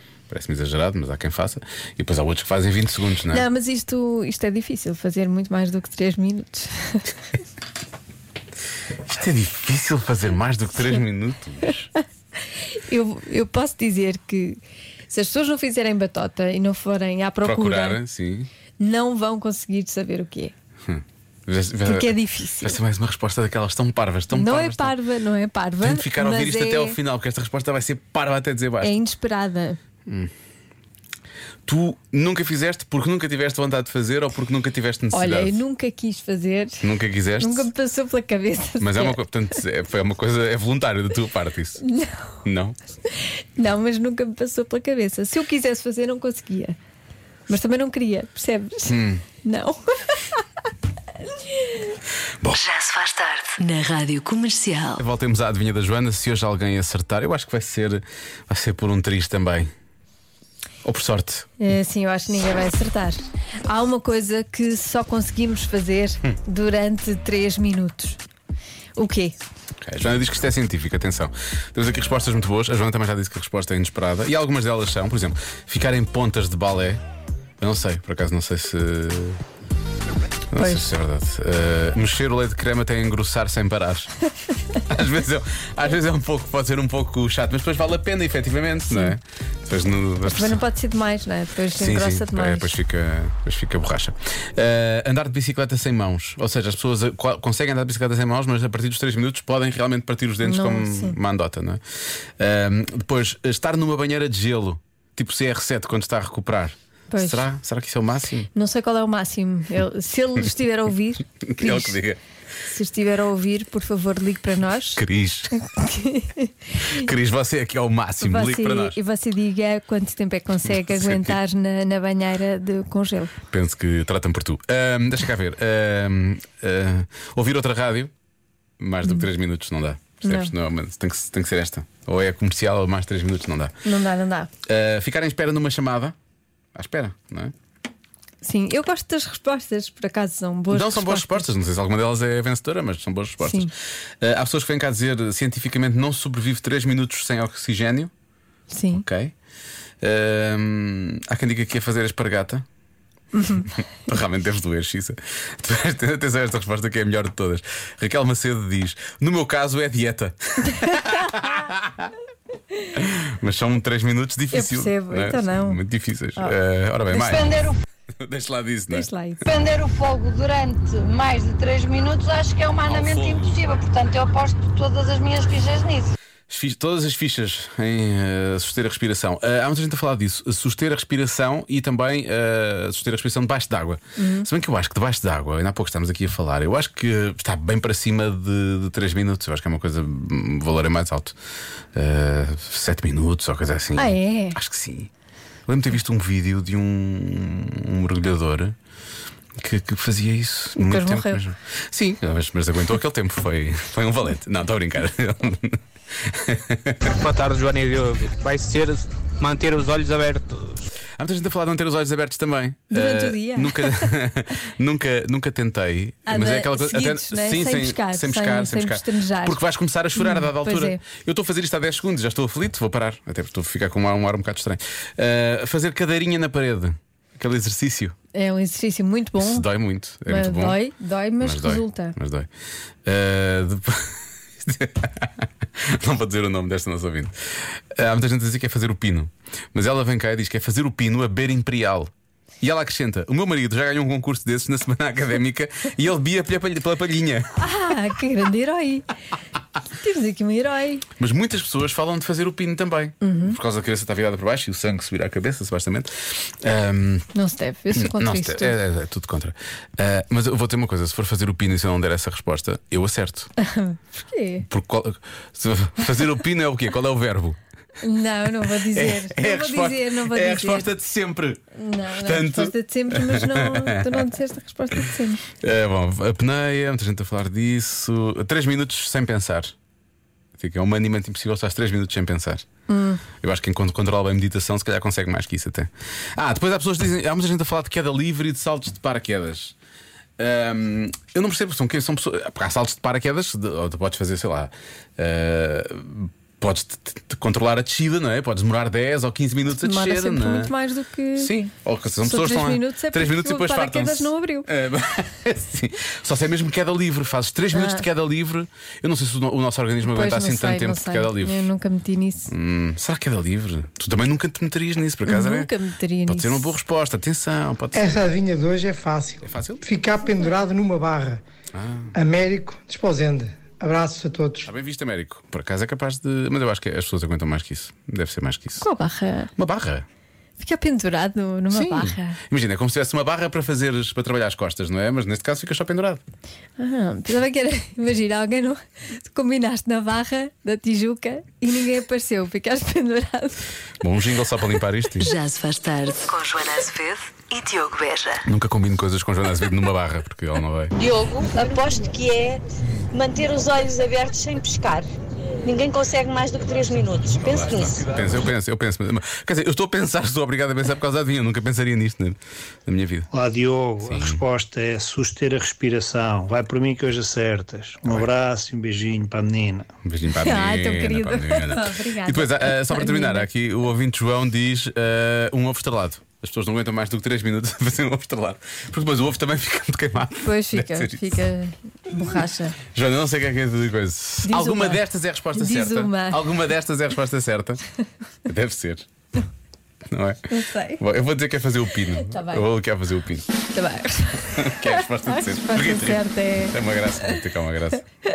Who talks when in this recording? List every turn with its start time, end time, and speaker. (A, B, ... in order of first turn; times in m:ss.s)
0:00.3-0:03.4 A
0:03.3-0:07.0 B
0:09.0-0:11.9 A
0:12.7-0:18.0 B
0:17.4-0:18.5 A
0:18.8-0:20.5 B
0:20.8-0:24.9 A
0:21.8-0:22.8 B
0:24.3-0:27.0 B
0:25.8-0:29.0 A
0:28.8-0:29.8 B
0:30.0-0:30.3 A
0:31.6-0:35.6 A
0:35.1-0:36.8 B
0:36.8-0:37.7 A
0:37.4-0:39.2 B
0:38.8-0:41.8 A
0:41.8-0:42.4 B
0:42.4-0:42.8 A
0:43.1-0:46.8 B
0:47.5-0:50.4 B
0:48.9-0:49.2 A
0:52.5-0:55.0 C
0:55.0-0:59.7 A
1:00.8-1:01.5 A
1:01.6-1:08.2 B
1:09.0-1:09.4 B
1:09.8-1:17.0 A
1:17.6-1:19.4 A
1:20.5-1:24.1 A
1:20.6-1:20.9 B
1:24.9-1:30.6 A
1:30.2-1:32.7 B
1:31.8-1:41.8 A
1:40.4-1:41.2 B
1:42.4-1:48.5 A
1:47.1-1:47.4 B
1:48.5-1:52.0 B
1:51.4-1:52.2 A
1:52.7-1:55.0 B
1:54.9-1:55.5 A
1:55.6-1:57.0 B
1:56.9-1:59.0 A
1:58.2-2:03.3 B
2:00.9-2:01.3 A
2:03.5-2:08.1 A
2:08.8-2:13.7 A
2:10.2-2:10.5 B
2:13.8-2:14.5 B
2:14.6-2:16.2 A
2:16.7-2:17.5 A
2:18.4-2:21.5 B
2:20.7-2:28.1 A
2:23.4-2:23.7 B
2:28.7-2:29.0 B
2:28.9-2:29.3 A
2:30.0-2:32.6 A
2:33.3-2:33.7 B
2:34.1-2:42.1 A
2:40.8-2:41.3 B
2:42.9-2:47.6 A
2:44.5-2:45.8 B
2:47.1-2:47.8 D
2:48.2-2:49.1 A
2:48.9-2:49.4 B
2:49.4-2:56.1 D
2:52.8-2:53.7 A
2:56.5-3:11.4 A
3:04.2-3:04.5 B
3:11.9-3:15.1 A
3:14.0-3:14.6 B
3:15.7-3:18.8 A
3:19.6-3:27.0 A
3:20.8-3:21.4 B
3:27.0-3:30.8 E
3:31.2-3:48.2 A
3:32.9-3:34.1 B
3:36.3-3:39.6 B
3:40.2-3:41.0 B
3:48.3-3:49.7 B
3:49.4-3:50.8 A
3:50.3-3:52.2 B
3:51.4-3:52.5 A
3:53.0-4:07.5 A
4:07.6-4:09.1 B
4:10.0-4:11.0 B
4:11.2-4:17.3 A
4:13.2-4:13.6 B
4:17.3-4:18.8 B
4:17.9-4:23.5 A
4:23.6-4:24.6 B
4:24.6-4:27.6 A
4:28.0-4:30.9 B
4:28.9-4:31.6 A
4:31.7-4:35.4 B
4:32.1-4:34.2 A
4:35.6-4:39.7 A
4:40.6-4:42.6 A
4:42.9-4:43.2 B
4:43.4-4:49.7 A
4:50.4-5:00.7 A
4:59.8-5:01.5 B
5:01.4-5:11.7 A
5:02.2-5:04.7 B
5:07.7-5:08.0 B
5:10.0-5:12.5 B
5:12.5-5:15.7 A
5:15.2-5:16.7 B
5:16.3-5:18.2 A
5:17.9-5:21.4 F
5:19.4-5:19.8 A
5:21.7-5:22.1 A
5:22.1-5:24.7 F
5:24.6-5:28.8 A
5:28.8-5:29.5 B
5:29.6-5:30.0 A
5:30.6-5:32.4 B
5:31.7-5:36.2 A
5:36.8-5:43.7 B
5:44.0-5:45.3 A
5:45.2-5:48.4 C
5:48.4-5:50.9 A
5:51.0-5:52.6 D
5:53.1-5:55.0 D
5:55.6-5:57.7 D
5:57.4-6:03.3 A
6:03.3-6:09.9 G
6:04.0-6:04.4 A
6:10.0-6:21.3 A
6:10.4-6:13.5 B
6:20.4-6:22.8 B
6:22.9-6:27.8 A
6:24.4-6:25.0 B
6:25.5-6:26.4 B
6:28.4-6:29.0 A
6:30.1-6:30.5 A
6:30.5-6:31.0 B
6:31.0-6:33.4 A
6:32.2-6:32.6 B
6:33.7-6:36.8 B
6:34.6-6:38.0 A